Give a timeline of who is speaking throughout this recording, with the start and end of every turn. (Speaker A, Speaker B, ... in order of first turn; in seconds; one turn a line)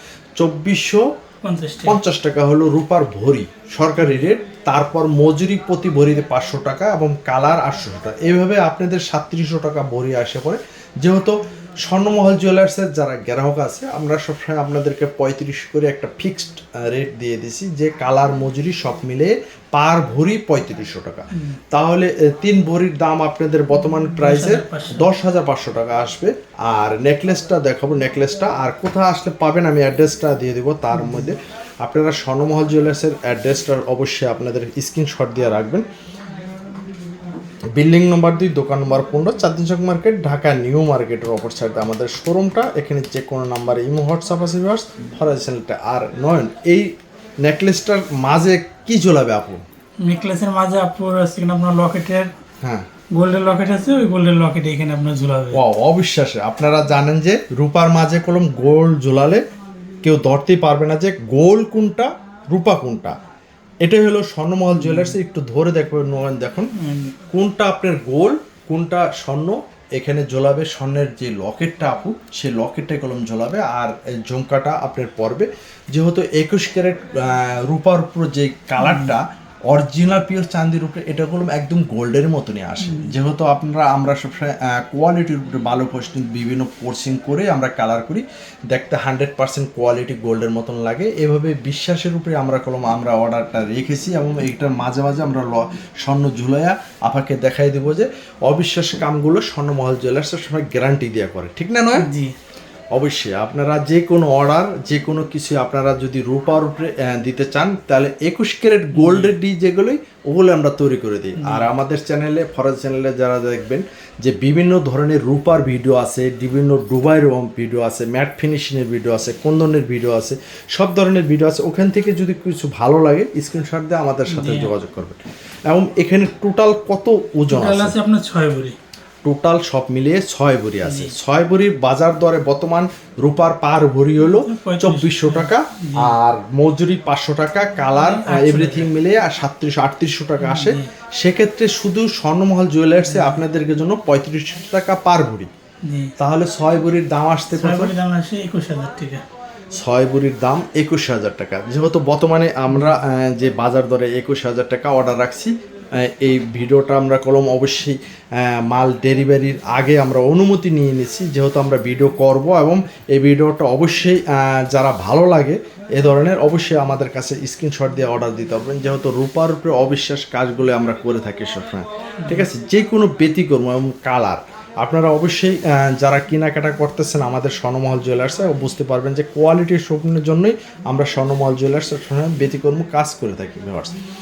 Speaker A: 0.4-1.1
Speaker B: 1.4-2.0
Speaker A: 1.8-35.9
Speaker B: 21.3-21.6
Speaker B: 24.1-25.1
Speaker B: 30.9-31.2
Speaker A: 37.8-49.6
Speaker B: 50.0-52.3
Speaker B: 53.1-55.6
Speaker A: 55.5-59.4
Speaker A: 60.0-63.1
Speaker A: 63.8-66.7
Speaker B: 64.7-65.2
Speaker B: 66.7-67.1
Speaker A: 67.3-102.1
Speaker B: 78.8-79.1
Speaker B: 82.8-83.1
Speaker B: 102.0-102.3
Speaker A: 102.9-128.0
Speaker B: 108.9-109.3
Speaker B: 111.4-111.7
Speaker B: 124.3-124.7
Speaker B: 127.5-128.8
Speaker A: 129.2-145.5
Speaker B: 130.8-131.1
Speaker B: 134.4-136.1
Speaker B: 137.9-138.9
Speaker B: 140.4-140.9
Speaker B: 143.0-143.4
Speaker B: 145.8-146.1
Speaker A: 146.2-147.9
Speaker B: 147.5-149.2
Speaker A: 149.7-183.9
Speaker B: 152.7-153.0
Speaker B: 172.2-172.5